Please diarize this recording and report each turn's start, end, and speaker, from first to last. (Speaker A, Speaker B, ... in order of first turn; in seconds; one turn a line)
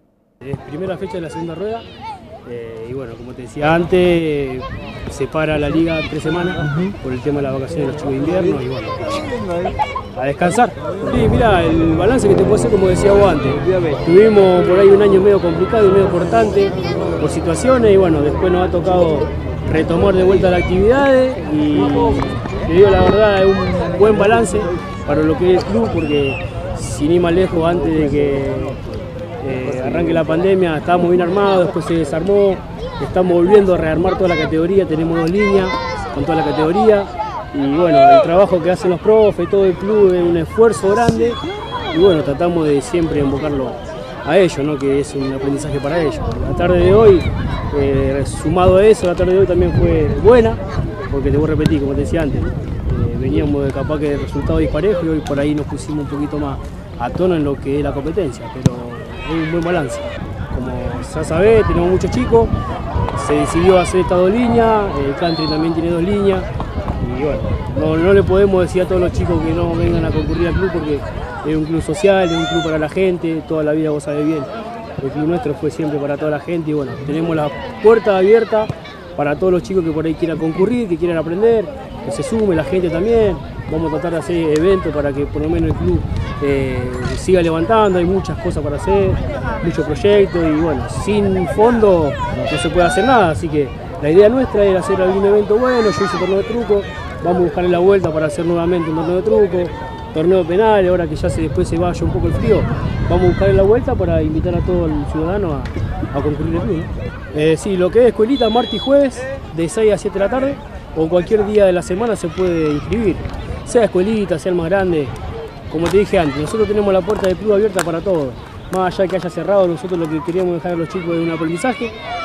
Speaker A: 0.4-1.9
Speaker A: 2.5-9.2
Speaker A: 10.1-28.8
Speaker A: 29.4-41.4
Speaker A: 41.9-62.5
Speaker A: 63.1-115.1
Speaker A: 115.7-121.9